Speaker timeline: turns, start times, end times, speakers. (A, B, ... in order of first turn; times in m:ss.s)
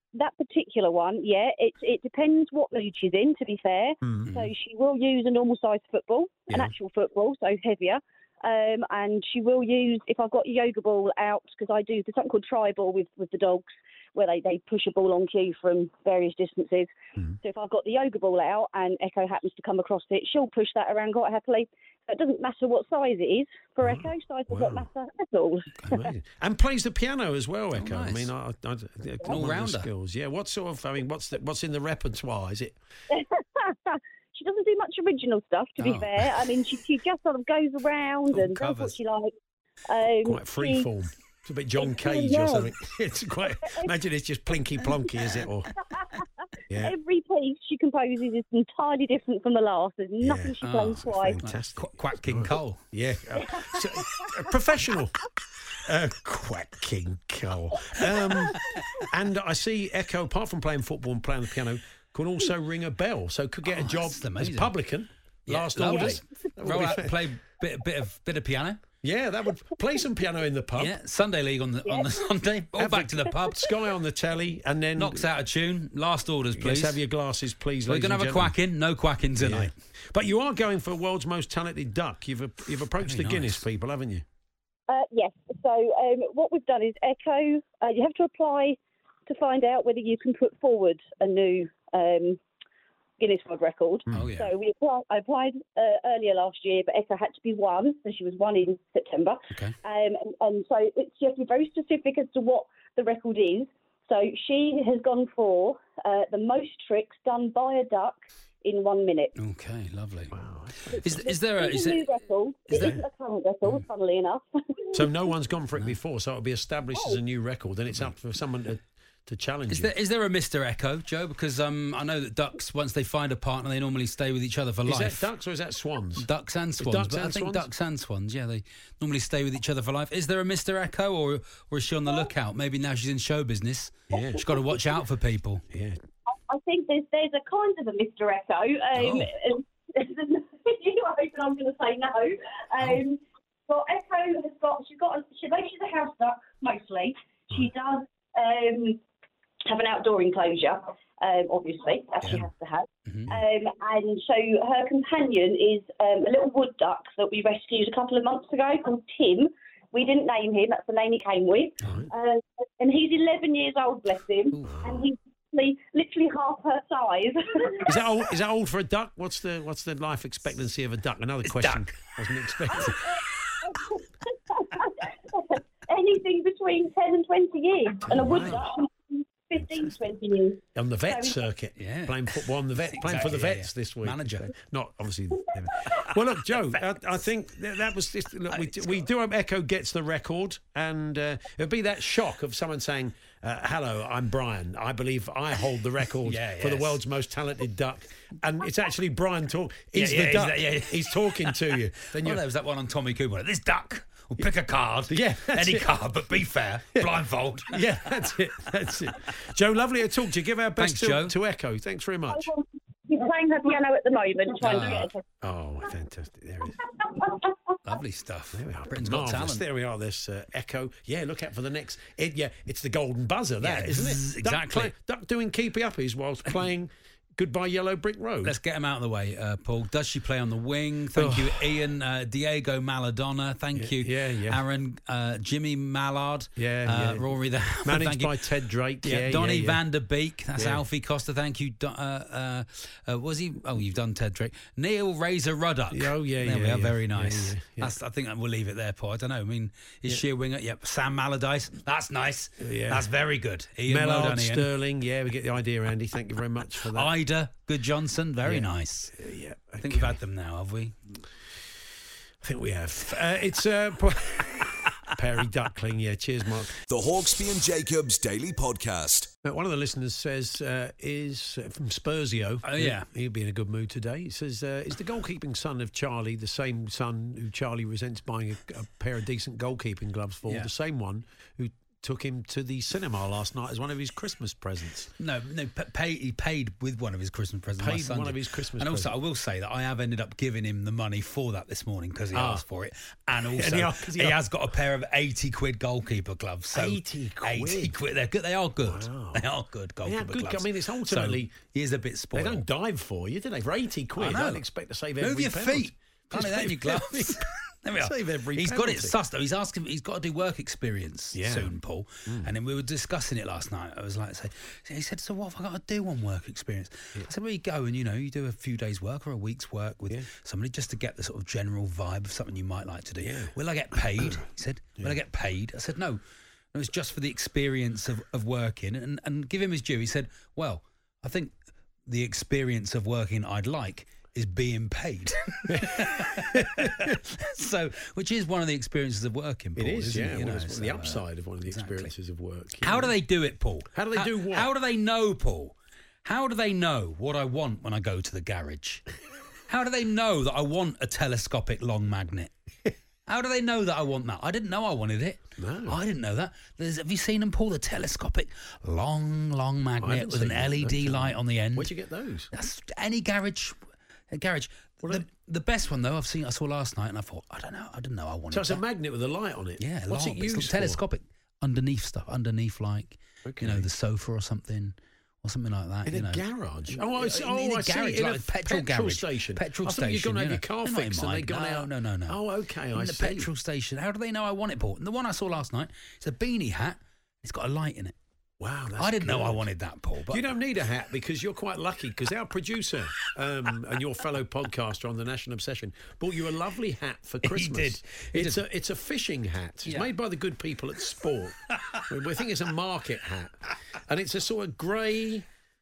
0:00.2-0:25.7 A
0:04.0-0:04.3 B
0:23.8-0:24.9 B
0:25.9-0:32.8 B
0:27.8-0:28.3 C
0:29.3-0:29.9 C
0:33.1-0:39.3 A
0:35.8-0:36.3 C
0:38.3-0:39.0 C
0:39.9-0:40.9 A
0:40.2-0:45.7 B
0:41.8-0:42.7 A
0:43.6-0:43.9 A
0:45.9-0:46.2 A
0:46.7-0:47.0 B
0:46.8-0:51.4 A
0:50.2-0:55.2 B
0:50.6-0:52.8 C
0:53.5-0:54.3 A
0:55.8-1:07.2 B
1:03.7-1:04.7 C
1:05.5-1:08.8 C
1:09.0-1:10.9 B
1:10.8-1:13.7 C
1:12.8-1:15.3 B
1:15.0-1:17.0 C
1:16.6-1:18.6 B
1:17.9-1:19.7 C
1:19.4-1:24.2 B
1:23.0-1:23.6 C
1:24.9-1:32.4 A
1:33.2-1:49.3 A
1:34.1-1:34.5 C
1:39.5-1:39.8 C
1:49.4-1:50.4 C
1:50.3-1:51.1 B
1:50.9-1:55.1 A
1:51.0-1:52.0 C
1:52.7-1:53.0 C
1:52.7-1:53.0 B
1:54.9-1:59.9 B
1:59.7-2:05.3 C
2:04.8-2:07.7 B
2:06.2-2:15.6 C
2:14.1-2:14.5 B
2:15.7-2:16.0 B
2:16.5-2:29.0 A
2:19.0-2:19.3 C
2:29.6-2:47.9 A
2:33.1-2:33.3 C
2:41.8-2:42.1 B
2:44.6-2:45.1 B
2:47.8-2:53.0 B
2:51.4-2:51.9 C
2:52.8-3:01.4 A
2:58.1-2:58.7 B
3:00.8-3:22.4 B
3:01.8-3:04.5 C
3:08.5-3:09.0 C
3:16.2-3:17.0 C
3:20.0-3:21.6 C
3:22.1-3:28.0 C
3:25.1-3:25.9 B
3:27.0-3:32.5 B
3:30.8-3:31.4 C
3:32.3-3:35.2 A
3:34.6-3:35.1 C
3:35.4-3:36.8 B
3:37.8-3:39.6 C
3:38.5-3:48.6 B
3:43.6-3:44.9 C
3:48.4-3:58.5 C
3:51.1-3:51.8 B
3:53.8-3:54.6 B
3:56.6-3:57.3 B
3:57.8-3:59.8 B
3:59.0-4:14.7 C
4:00.6-4:00.8 B
4:05.9-4:08.0 B
4:12.6-4:13.1 B
4:13.9-4:17.1 B
4:16.9-4:19.1 C
4:18.4-4:20.2 B
4:19.8-4:21.2 C
4:22.4-4:26.8 B
4:26.9-4:29.3 D
4:29.4-4:45.1 B
4:32.6-4:33.1 C
4:45.2-5:02.6 C
4:47.8-4:49.1 B
4:52.3-4:52.6 B
4:53.4-4:54.4 B
4:56.7-4:58.0 B
4:58.8-4:59.5 B
5:00.0-5:01.6 B
5:02.3-5:09.2 B
5:04.2-5:04.6 C
5:05.2-5:26.2 C
5:11.3-5:11.8 B
5:12.3-5:12.5 B
5:23.2-5:24.4 B
5:26.7-5:31.5 C
5:32.1-5:42.1 C
5:35.7-5:37.2 B
5:39.8-5:43.1 B
5:42.8-5:49.0 C
5:43.9-5:44.7 B
5:49.7-5:52.5 C
5:53.3-6:01.9 C
5:55.6-5:56.0 B
6:00.0-6:02.5 B
6:02.5-6:03.8 C
6:04.3-6:08.8 C
6:08.5-6:11.0 B
6:09.8-6:22.4 C
6:13.4-6:13.9 B
6:16.1-6:23.5 B
6:22.9-6:28.2 C
6:28.6-6:29.6 B
6:29.0-6:30.4 C
6:30.3-6:45.5 B
6:37.4-6:38.6 C
6:39.9-6:40.1 C
6:41.7-6:42.0 C